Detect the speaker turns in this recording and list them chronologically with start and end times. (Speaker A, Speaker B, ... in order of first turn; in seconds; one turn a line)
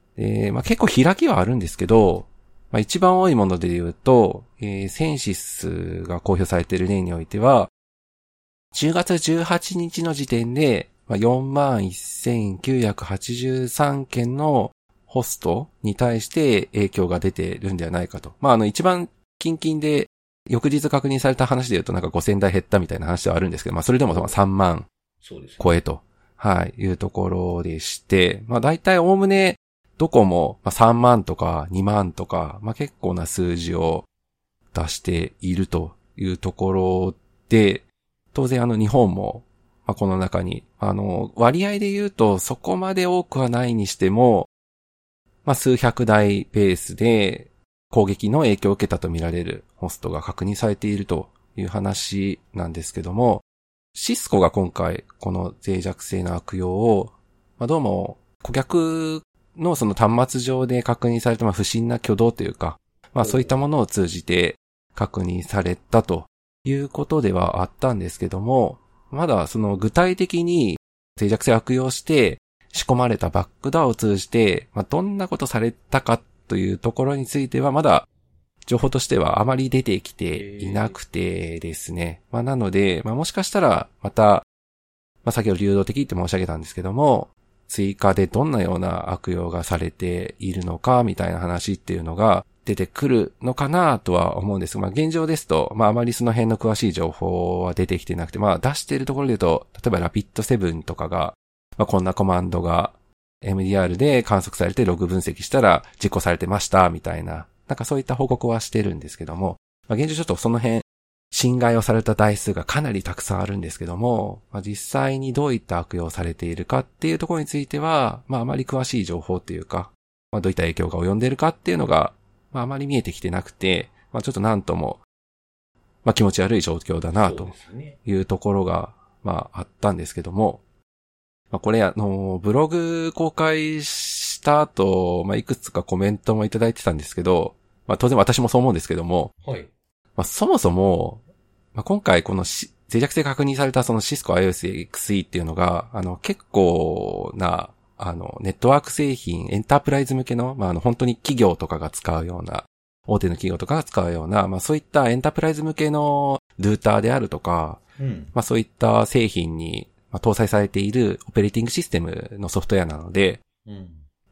Speaker A: 0.2-7.7
Speaker A: 8.7-24.9
Speaker B: 24.1-24.3
Speaker B: 25.2-25.7
Speaker A: 25.6-34.0
Speaker A: 34.7-44.5
Speaker A: 45.4-78.0
Speaker B: 63.2-63.6
Speaker A: 78.7-84.5
Speaker B: 80.3-81.0
Speaker A: 85.2-125.0
Speaker A: 126.0-130.6
Speaker B: 127.1-128.0
Speaker A: 131.5-139.3
Speaker B: 139.4-139.7
Speaker A: 140.2-141.2
Speaker A: 141.7-157.8
Speaker B: 158.0-158.3
Speaker A: 158.3-163.4
Speaker B: 163.7-164.0